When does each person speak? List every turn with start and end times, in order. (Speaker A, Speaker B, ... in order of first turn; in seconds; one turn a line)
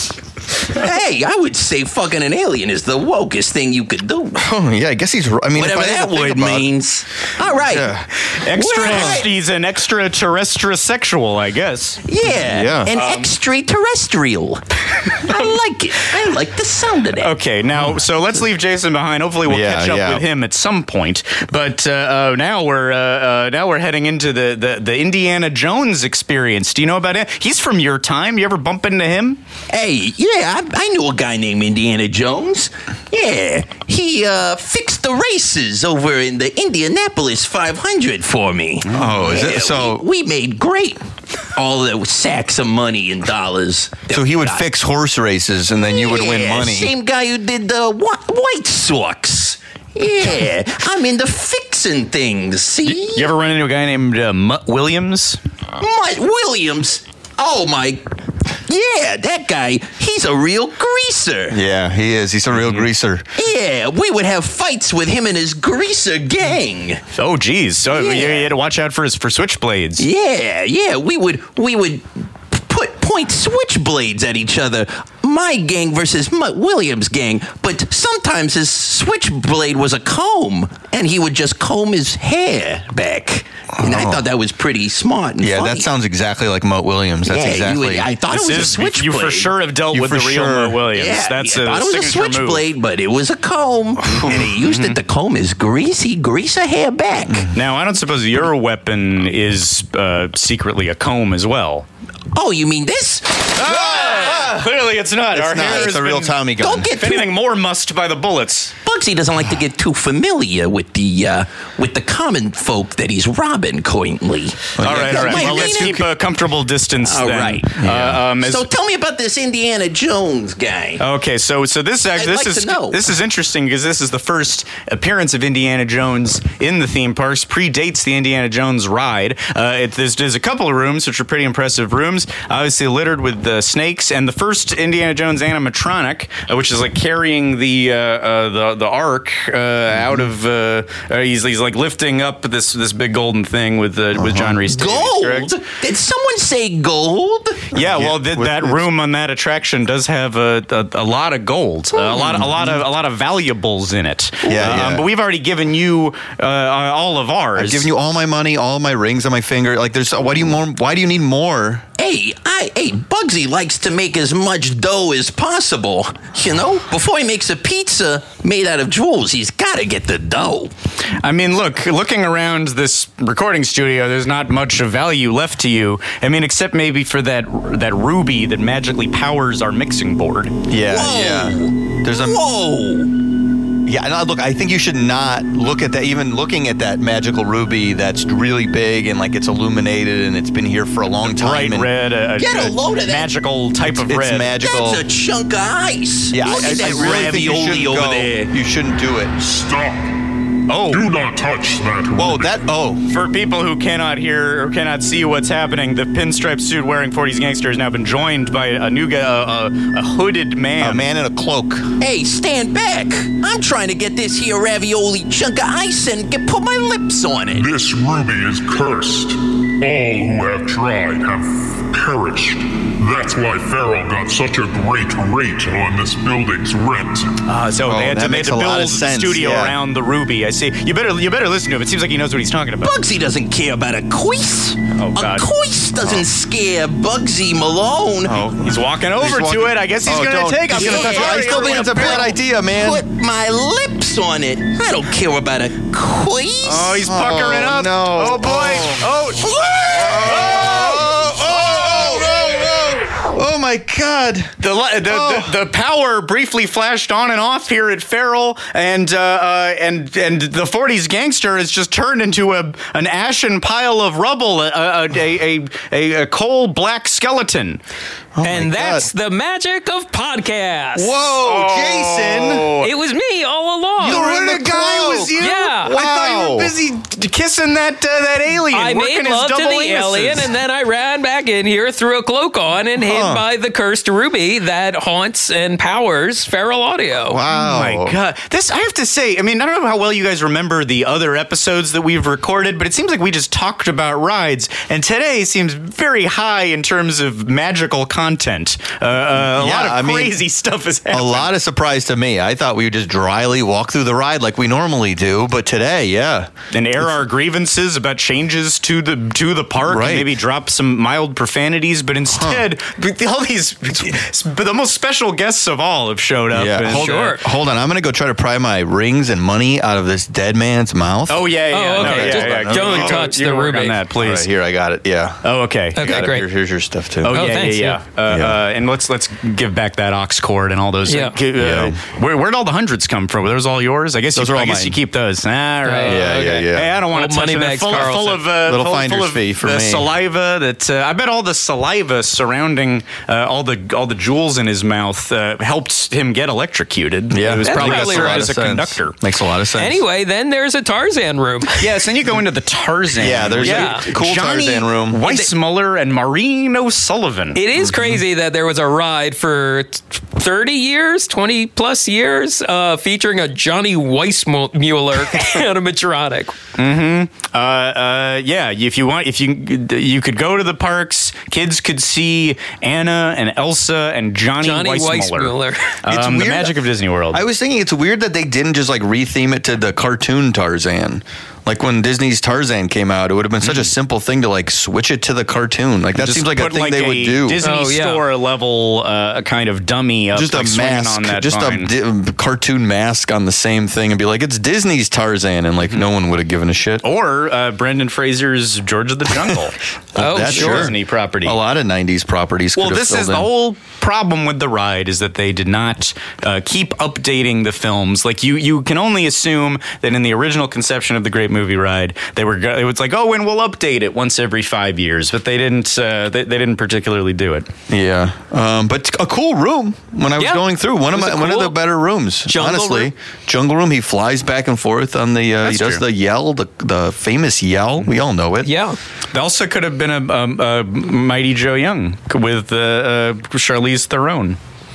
Speaker A: 0.7-4.4
Speaker B: 4.4-6.7
Speaker A: 5.5-8.0
Speaker B: 7.6-8.1
Speaker C: 8.3-12.0
Speaker A: 8.5-9.3
Speaker B: 8.8-9.2
Speaker A: 12.1-17.3
Speaker B: 12.2-12.9
Speaker C: 12.9-13.3
Speaker C: 17.2-29.4
Speaker B: 17.8-18.0
Speaker B: 19.5-20.2
Speaker A: 29.7-41.0
Speaker B: 38.9-40.0
Speaker A: 41.5-44.6
Speaker B: 44.1-46.9
Speaker A: 45.9-53.3
Speaker C: 52.9-55.4
Speaker A: 55.8-58.0
Speaker A: 58.7-61.6
Speaker B: 61.5-63.2
Speaker C: 62.5-62.9
Speaker A: 63.4-67.0
Speaker C: 67.2-70.1
Speaker A: 67.9-68.5
Speaker A: 70.0-85.9
Speaker B: 83.8-84.2
Speaker B: 85.4-88.1
Speaker A: 87.2-89.5
Speaker C: 88.3-92.7
Speaker B: 89.9-90.9
Speaker A: 90.9-97.5
Speaker C: 94.1-95.0
Speaker B: 94.2-94.4
Speaker C: 97.5-101.9
Speaker A: 102.3-104.5
Speaker C: 103.5-108.8
Speaker B: 103.6-104.7
Speaker B: 105.3-106.9
Speaker A: 106.6-107.3
Speaker A: 108.8-116.0
Speaker B: 114.8-116.1
Speaker C: 114.8-118.7
Speaker A: 117.0-117.7
Speaker B: 117.8-118.3
Speaker A: 118.4-121.0
Speaker C: 121.0-145.5
Speaker A: 122.2-123.0
Speaker B: 140.0-140.2
Speaker B: 144.2-144.6
Speaker A: 144.7-147.7
Speaker B: 147.7-148.8
Speaker C: 147.7-157.9
Speaker B: 152.1-152.8
Speaker B: 154.5-155.1
Speaker B: 157.6-161.8
Speaker A: 162.0-170.7
Speaker C: 171.2-180.6
Speaker B: 180.7-182.4
Speaker A: 180.9-183.1
Speaker B: 183.8-191.9
Speaker C: 191.3-194.5
Speaker A: 192.4-193.3
Speaker B: 193.9-195.0
Speaker A: 194.6-198.5
Speaker B: 196.3-199.3
Speaker C: 196.6-197.3
Speaker D: 199.4-202.7
Speaker C: 200.7-201.1
Speaker B: 202.2-203.0
Speaker C: 203.1-211.1
Speaker B: 210.8-211.9
Speaker A: 212.0-217.7
Speaker D: 217.5-227.4
Speaker C: 227.5-232.9
Speaker B: 227.8-229.8
Speaker A: 232.8-238.4
Speaker C: 234.9-235.5
Speaker B: 238.2-243.0
Speaker C: 238.6-242.4
Speaker A: 240.7-247.0
Speaker C: 246.6-251.3
Speaker B: 247.1-249.1
Speaker A: 249.4-250.2
Speaker B: 249.9-255.5
Speaker A: 251.5-252.3
Speaker C: 254.6-267.8
Speaker B: 268.4-269.1
Speaker E: 268.4-271.1
Speaker B: 271.0-272.8
Speaker C: 271.4-272.9
Speaker E: 272.8-274.2
Speaker B: 274.0-276.8
Speaker C: 274.0-280.5
Speaker E: 275.4-275.9
Speaker E: 278.7-287.4
Speaker B: 283.0-283.4
Speaker B: 287.3-288.2
Speaker C: 287.5-301.5
Speaker B: 299.3-300.4
Speaker B: 301.1-307.1
Speaker C: 306.7-317.4
Speaker B: 309.8-310.4
Speaker B: 312.3-312.6
Speaker B: 316.5-323.2
Speaker E: 316.9-317.4
Speaker C: 321.3-324.5
Speaker E: 321.7-324.0
Speaker B: 324.1-325.4
Speaker C: 325.4-326.2
Speaker B: 325.9-327.4
Speaker E: 326.0-326.5
Speaker C: 327.2-349.1
Speaker E: 327.3-328.0
Speaker B: 328.3-328.6
Speaker E: 331.1-331.4
Speaker B: 331.6-332.0
Speaker B: 334.4-335.0
Speaker E: 335.9-338.4
Speaker B: 336.0-337.0
Speaker B: 338.6-340.1
Speaker B: 347.3-350.0
Speaker E: 347.6-348.5
Speaker E: 349.8-351.8
Speaker C: 351.8-357.6
Speaker B: 353.2-355.3
Speaker E: 353.6-354.1
Speaker E: 357.5-366.6
Speaker B: 357.8-358.2
Speaker C: 366.8-377.4
Speaker E: 374.6-376.0
Speaker B: 376.1-376.8
Speaker B: 377.3-387.6
Speaker C: 383.6-383.9
Speaker C: 386.2-391.9
Speaker E: 387.6-388.2
Speaker B: 390.3-397.0
Speaker C: 397.0-401.6
Speaker B: 400.1-403.5
Speaker E: 400.2-400.9
Speaker C: 402.8-417.7
Speaker B: 417.9-428.7
Speaker E: 420.4-421.8
Speaker E: 422.5-423.1
Speaker C: 425.6-426.0
Speaker E: 428.6-429.0
Speaker C: 429.3-434.6